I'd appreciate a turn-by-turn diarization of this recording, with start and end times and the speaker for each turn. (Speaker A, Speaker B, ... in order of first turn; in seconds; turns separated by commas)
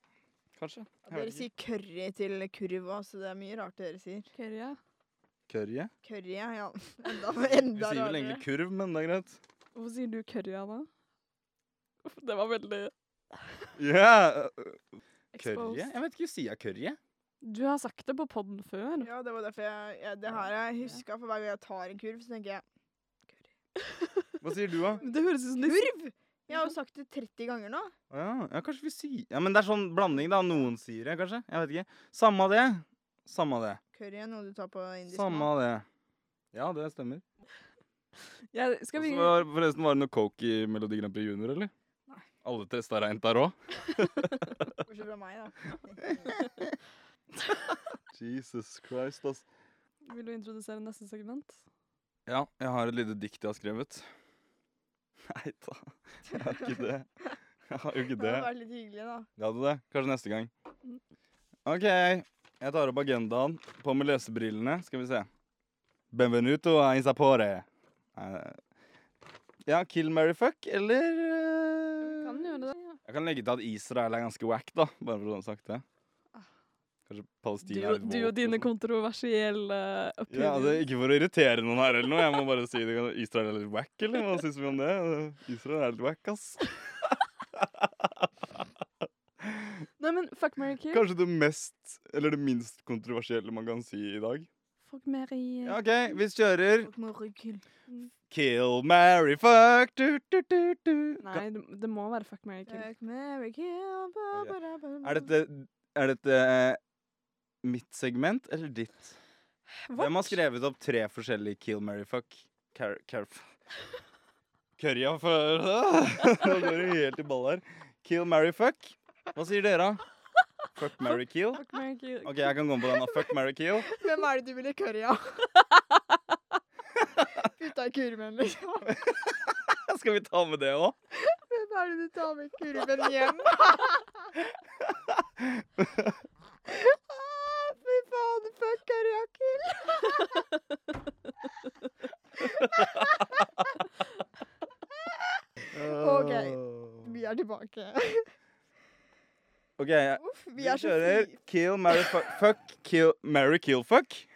Speaker A: 0.6-1.5, Speaker B: 1.1-4.3, Speaker C: 4.3-4.8, Speaker A: 5.5-5.9, Speaker B: 6.0-8.4, Speaker A: 7.7-9.4, Speaker C: 9.8-10.9, Speaker C: 12.0-12.9, Speaker A: 13.8-14.8, Speaker C: 15.3-15.9, Speaker A: 15.3-17.0, Speaker C: 17.4-19.1, Speaker B: 19.0-22.6, Speaker C: 23.8-24.3, Speaker A: 24.4-25.0, Speaker C: 25.0-25.9, Speaker B: 25.0-27.9, Speaker A: 28.1-33.8, Speaker B: 33.9-35.5, Speaker A: 35.1-35.9, Speaker A: 36.5-37.2, Speaker C: 38.5-39.5, Speaker A: 39.0-41.7, Speaker A: 42.4-44.5, Speaker B: 44.8-46.5, Speaker A: 48.1-49.5, Speaker C: 50.1-51.6, Speaker A: 52.3-54.0, Speaker A: 55.3-57.1, Speaker A: 57.7-58.5, Speaker B: 58.2-59.3, Speaker A: 59.4-60.5, Speaker A: 61.7-65.3, Speaker A: 66.1-68.6, Speaker A: 69.7-72.5, Speaker C: 72.0-73.0, Speaker A: 73.0-75.8, Speaker A: 77.1-78.7, Speaker C: 77.6-80.8, Speaker A: 80.3-86.6, Speaker A: 87.5-88.6, Speaker A: 89.4-89.8, Speaker C: 90.0-91.1, Speaker A: 90.9-94.5, Speaker C: 94.9-95.8, Speaker A: 95.6-96.9, Speaker B: 96.8-97.6, Speaker A: 98.3-101.4, Speaker C: 101.2-102.9, Speaker B: 102.7-105.3, Speaker A: 104.3-106.8, Speaker A: 107.6-109.2, Speaker C: 109.8-110.4, Speaker A: 110.0-113.5, Speaker A: 114.8-120.0, Speaker A: 120.8-121.6, Speaker C: 121.0-123.0, Speaker A: 122.2-123.9, Speaker B: 123.9-125.5, Speaker B: 127.4-128.9, Speaker A: 128.9-130.9, Speaker B: 131.1-134.3, Speaker A: 134.4-136.2, Speaker B: 136.7-140.5, Speaker B: 142.4-143.3, Speaker A: 142.5-143.2, Speaker B: 145.7-148.3, Speaker A: 145.7-147.1, Speaker A: 149.8-154.3, Speaker B: 150.2-151.4